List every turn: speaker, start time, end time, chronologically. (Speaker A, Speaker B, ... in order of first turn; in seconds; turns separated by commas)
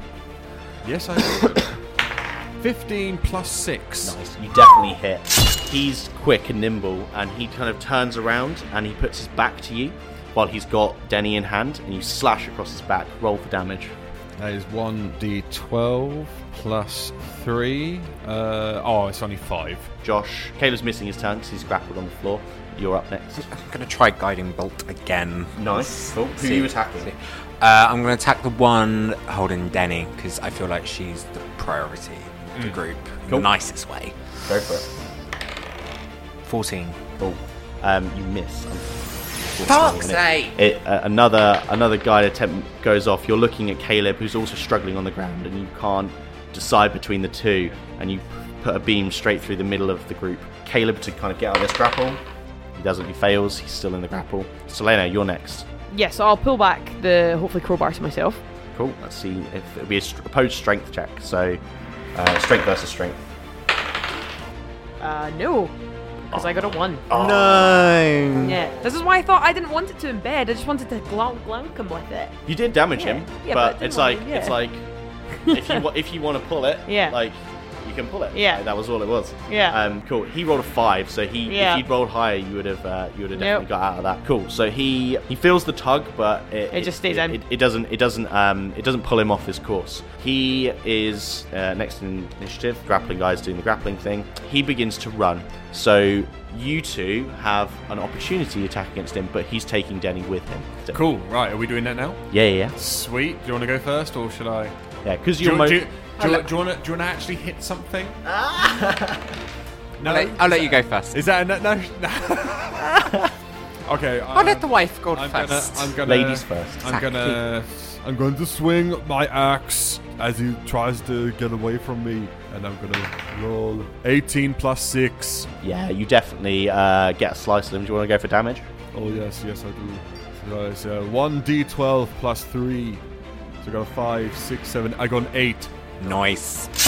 Speaker A: 0.8-1.8, Speaker A: 2.6-4.2, Speaker B: 4.0-13.9, Speaker A: 14.4-19.9, Speaker B: 20.0-23.5, Speaker C: 23.4-34.2, Speaker B: 25.6-27.1, Speaker B: 34.5-34.9, Speaker C: 36.5-37.0, Speaker B: 37.2-52.2, Speaker C: 39.7-40.6, Speaker B: 52.8-55.7, Speaker D: 55.9-58.4, Speaker B: 58.7-61.6, Speaker B: 62.1-63.2, Speaker D: 65.0-65.7, Speaker D: 66.3-67.1, Speaker B: 67.1-67.8, Speaker C: 67.1-68.6, Speaker D: 68.4-72.4, Speaker B: 72.5-74.8, Speaker D: 73.0-74.6, Speaker D: 75.5-75.8, Speaker B: 75.5-101.0, Speaker D: 76.9-77.2, Speaker D: 78.3-78.6, Speaker D: 79.5-79.8, Speaker D: 81.5-81.8, Speaker D: 83.3-83.7, Speaker D: 86.7-87.4, Speaker A: 100.9-102.2, Speaker B: 102.3-102.8, Speaker A: 102.8-104.7, Speaker B: 105.0-106.5, Speaker A: 105.4-108.2, Speaker B: 108.3-109.3, Speaker A: 110.0-113.2, Speaker C: 110.0-111.2, Speaker A: 113.9-125.5, Speaker C: 114.3-116.0, Speaker B: 116.0-116.9, Speaker C: 116.8-117.4, Speaker B: 125.6-128.7, Speaker A: 128.9-133.0, Speaker A: 133.6-135.7, Speaker C: 136.0-136.8